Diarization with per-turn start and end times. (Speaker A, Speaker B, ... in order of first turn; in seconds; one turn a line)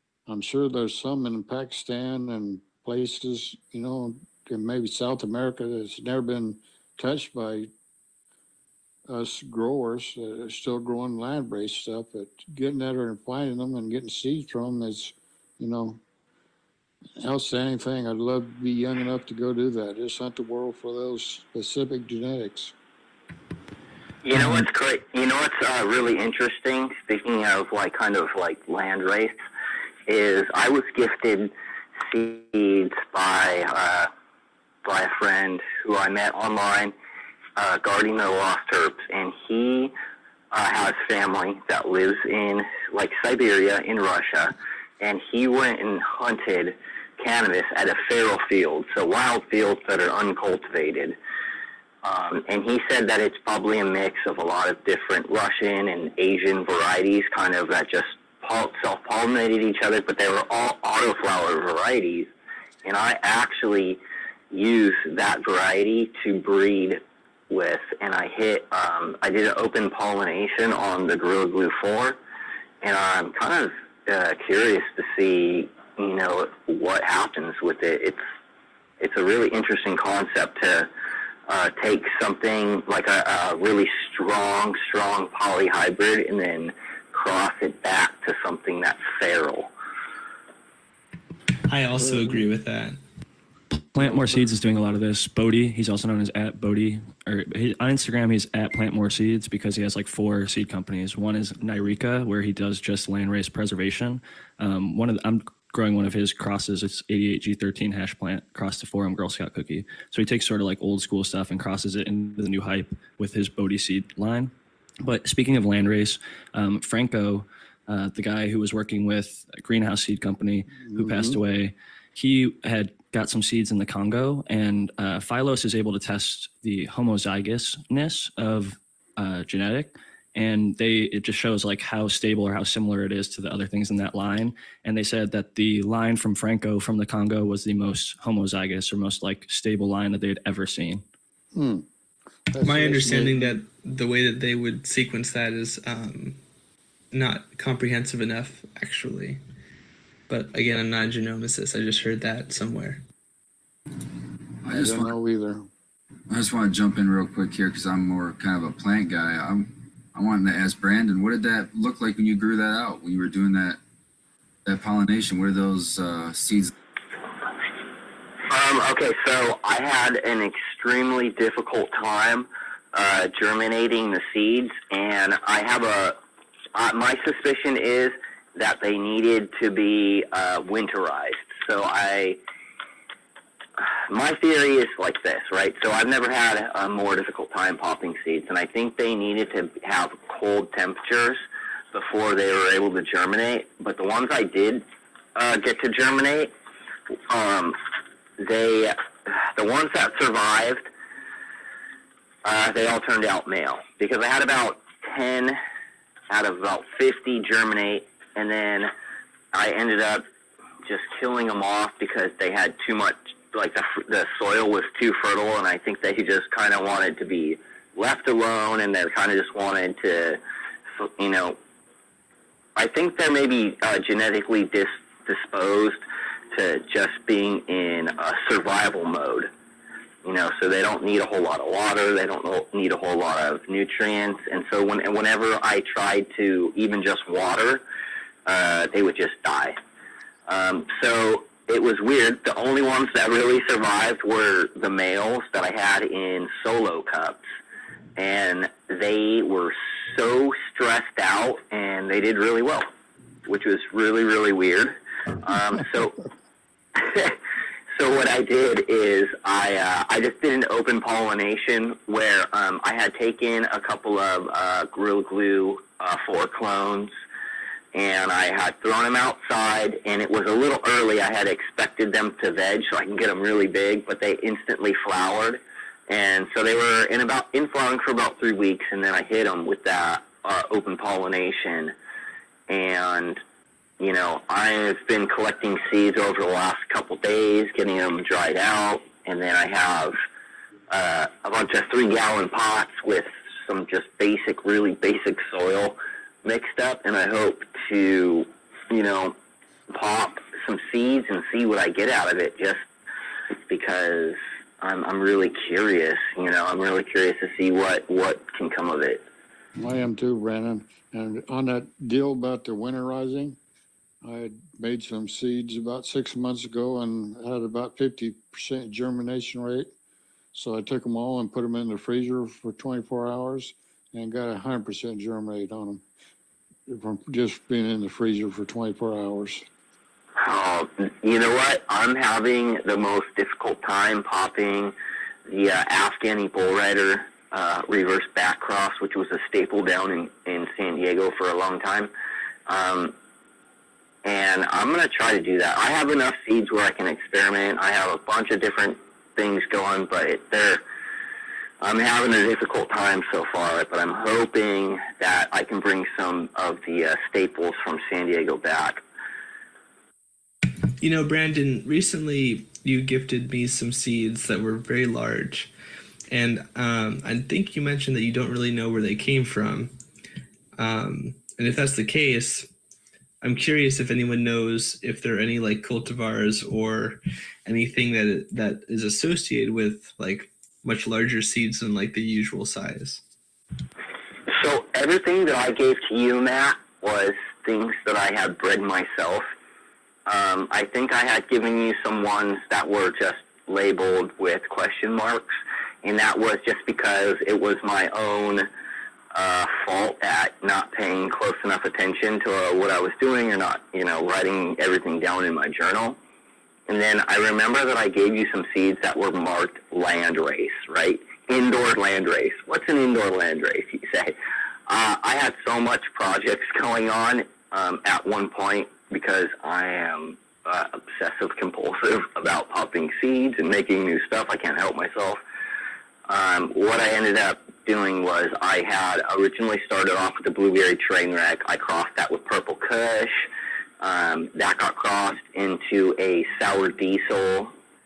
Speaker A: 0.3-7.7
Speaker A: 9.1-16.0
Speaker A: 17.2-22.7
Speaker B: 24.2-29.4
Speaker B: 30.1-31.5
Speaker B: 32.1-34.1
Speaker B: 34.9-36.9
Speaker B: 37.6-39.9
Speaker B: 40.5-51.2
Speaker B: 52.0-62.3
Speaker B: 62.9-64.0
Speaker B: 64.5-72.2
Speaker B: 72.8-78.2
Speaker B: 79.0-80.9
Speaker B: 81.5-89.7
Speaker C: 91.7-93.0
Speaker A: 92.0-92.4
Speaker D: 93.7-114.5
Speaker A: 94.0-94.3
Speaker D: 115.0-141.0
Speaker A: 120.8-121.4
Speaker A: 141.5-141.9
Speaker A: 142.5-143.6
Speaker C: 142.6-146.4
Speaker C: 147.1-149.4
Speaker C: 150.3-153.0
Speaker E: 154.6-155.2
Speaker A: 154.7-155.7
Speaker E: 156.3-163.8
Speaker E: 164.7-166.7
Speaker B: 168.5-176.2
Speaker B: 176.7-182.4
Speaker B: 183.8-196.5
Speaker B: 197.3-197.8
Speaker B: 198.4-200.9
Speaker B: 202.4-205.6
Speaker B: 206.3-208.9
Speaker B: 209.5-210.2
Speaker B: 210.8-220.4
Speaker B: 221.0-221.6
Speaker B: 222.8-226.0
Speaker B: 226.5-229.5
Speaker B: 230.2-237.8
Speaker B: 238.5-239.8
Speaker B: 240.5-247.4
Speaker B: 248.2-252.9
Speaker B: 253.5-256.1
Speaker B: 257.0-257.4
Speaker B: 258.0-267.1
Speaker B: 267.9-281.9
Speaker B: 282.7-283.4
Speaker B: 284.0-290.2
Speaker B: 290.9-299.4
Speaker B: 299.9-302.8
Speaker B: 303.7-309.2
Speaker A: 309.8-313.6
Speaker A: 314.2-319.9
Speaker A: 320.5-326.0
Speaker A: 326.9-329.6
Speaker B: 330.4-334.9
Speaker B: 335.5-342.1
Speaker B: 342.7-343.1
Speaker B: 344.2-350.8
Speaker B: 351.8-359.0
Speaker C: 361.0-365.7
Speaker C: 366.3-369.9
Speaker C: 370.8-372.7
Speaker C: 373.4-383.2
Speaker B: 384.5-389.5
Speaker B: 390.3-398.7
Speaker B: 399.3-406.2
Speaker B: 406.9-414.4
Speaker B: 414.9-425.4
Speaker B: 426.3-433.4
Speaker B: 434.0-437.7